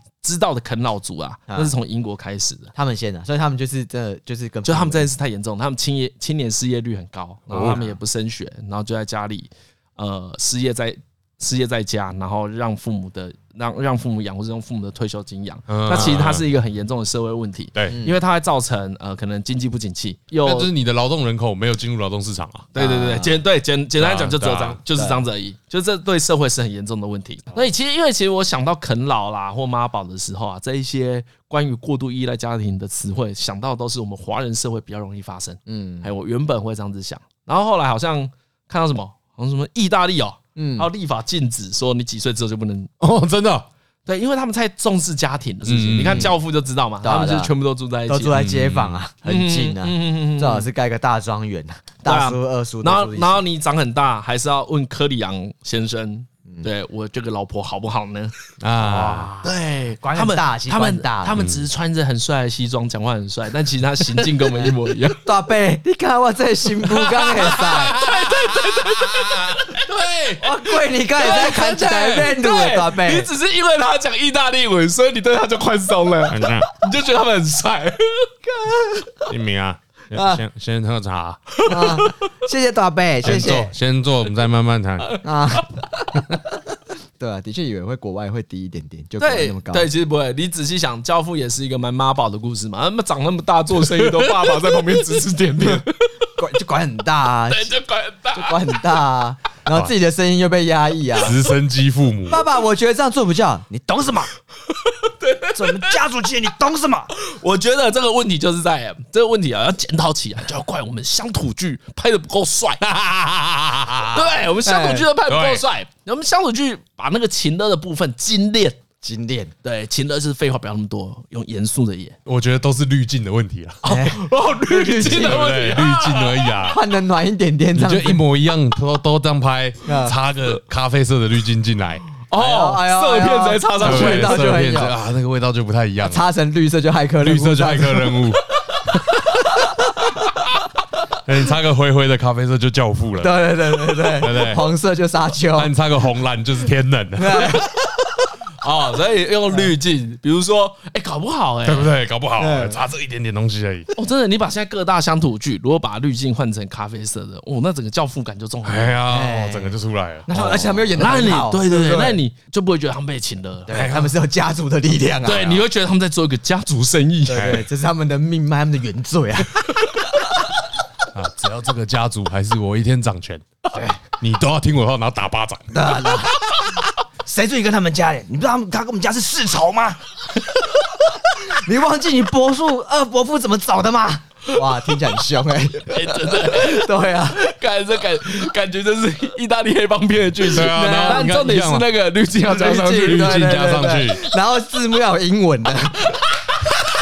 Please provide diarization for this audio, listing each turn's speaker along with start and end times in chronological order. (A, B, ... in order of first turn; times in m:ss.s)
0:00.2-0:02.7 A
0:02.8-0:05.1 B
0:04.6-0:20.7 A
0:07.5-0:07.8 C
0:07.6-0:08.0 B
0:15.7-0:16.5 C
0:17.9-0:18.2 B
0:20.4-0:22.7 C
0:22.7-0:42.9 A
0:22.8-0:23.4 B
0:24.0-0:24.8 C
0:25.0-0:25.2 B
0:35.7-0:36.1 B
0:40.6-0:40.9 B
0:43.0-0:43.7 C
0:44.1-0:48.4 A
0:45.7-0:46.3 C
0:46.0-0:46.3 B
0:47.0-0:47.5 B
0:48.1-0:53.4 B
0:48.3-0:49.0 C
0:49.2-0:50.7 A
0:52.0-0:58.3 A
0:58.6-0:59.3 C
0:58.8-1:01.4 B
0:59.4-1:05.2 A
1:01.4-1:01.6 C
1:05.2-1:08.0 B
1:07.0-1:10.5 C
1:07.8-1:09.8 A
1:10.4-1:13.3 B
1:11.2-1:18.3 A
1:11.4-1:12.3 C
1:16.3-1:16.7 C
1:18.5-1:19.3 B
1:19.3-1:21.5 C
1:20.1-1:20.4 B
1:21.5-1:22.2 A
1:21.7-1:23.7 B
1:23.2-1:25.2 C
1:25.2-1:26.4 B
1:27.2-1:29.9 B
1:29.2-1:36.1 A
1:33.8-1:34.6 C
1:36.4-1:37.8 B
1:37.5-1:38.6 A
1:38.3-1:41.4 B
1:41.2-1:42.5 C
1:42.3-1:44.3 B
1:44.8-1:46.0 A
1:45.5-1:47.1 B
1:47.1-1:52.8 A
1:52.8-1:54.4 C
1:54.1-1:58.8 A
1:54.6-1:55.1 B
1:55.3-1:55.6 C
1:59.0-1:59.5 B
1:59.6-2:02.2 A
2:02.3-2:03.9 C
2:03.8-2:06.7 A
2:03.9-2:05.5 B
2:05.0-2:06.8 C
2:06.7-2:08.2 B
2:07.8-2:12.0 C
2:09.9-2:10.2 B
2:12.3-2:14.6 A
2:12.4-2:15.0 B
2:13.8-2:16.2 C
2:16.0-2:18.3 B
2:17.2-2:19.4 C
2:19.5-2:20.1 B
2:21.2-2:24.6 C
2:23.2-2:25.7 B
2:25.5-2:27.6 C
2:27.2-2:27.8 B
2:28.6-2:31.9 A
2:31.6-2:33.9 C
2:32.4-2:32.8 B
2:34.0-2:39.0 A
2:38.6-2:40.9 C
2:39.1-2:39.8 B
2:40.3-2:42.2 B
2:41.0-2:44.0 A
2:43.7-2:45.6 B
2:43.7-2:44.1 C
2:45.2-2:47.6 A
2:47.3-2:50.0 B
2:47.3-2:47.7 C
2:51.1-2:53.4 C
2:53.7-2:54.0 B
2:54.2-2:55.8 C
2:55.7-2:56.4 B
2:57.2-3:00.0 B
3:00.8-3:07.5 B
3:05.9-3:13.8 A
3:10.5-3:11.3 B
3:10.5-3:11.9 C
3:12.5-3:16.2 B
3:13.1-3:14.2 C